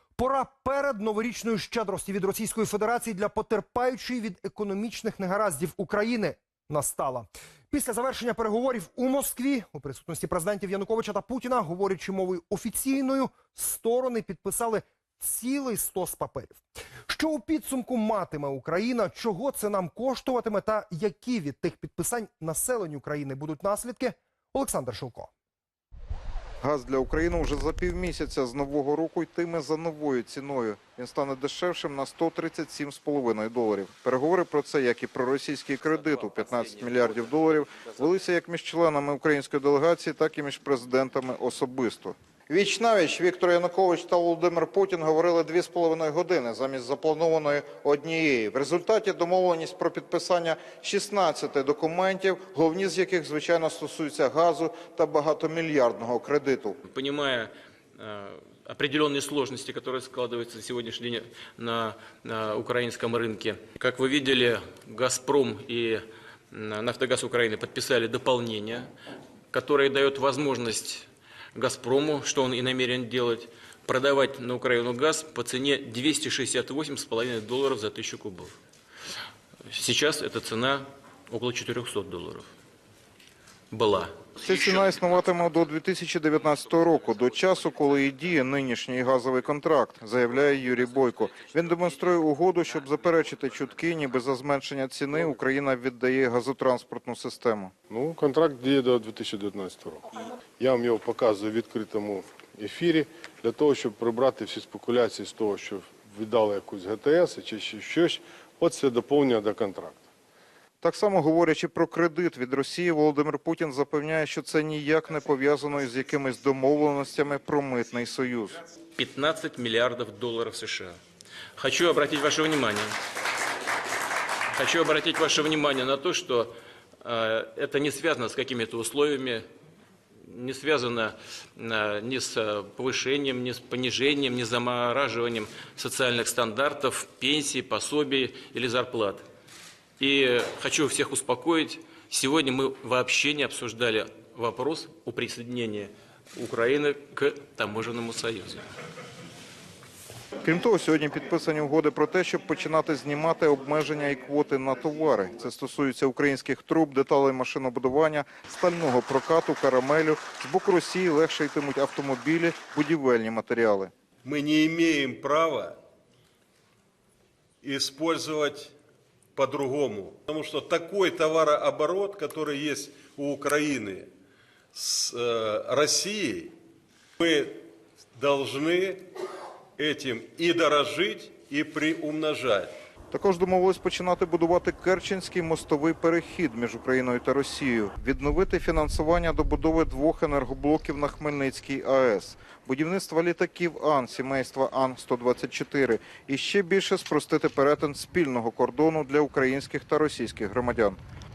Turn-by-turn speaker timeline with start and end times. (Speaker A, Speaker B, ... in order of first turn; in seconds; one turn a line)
Speaker A: 0.2-25.3
Speaker B: 26.6-56.8
Speaker C: 56.9-68.9
Speaker C: 69.5-78.5
Speaker C: 79.7-82.5
Speaker C: 83.7-84.2
Speaker B: 84.4-97.7
Speaker D: 97.9-110.0
Speaker B: 110.8-118.6
Speaker C: 119.0-121.0
Speaker C: 121.5-122.9
Speaker C: 124.5-126.5
Speaker C: 127.0-129.4
Speaker C: 130.2-139.2
Speaker C: 140.0-148.7
Speaker B: 150.4-163.9
Speaker E: 164.2-165.8
Speaker E: 167.6-168.7
Speaker E: 169.3-174.1
Speaker E: 174.7-176.5
Speaker E: 177.2-179.1
Speaker E: 179.8-182.7
Speaker B: 183.1-201.0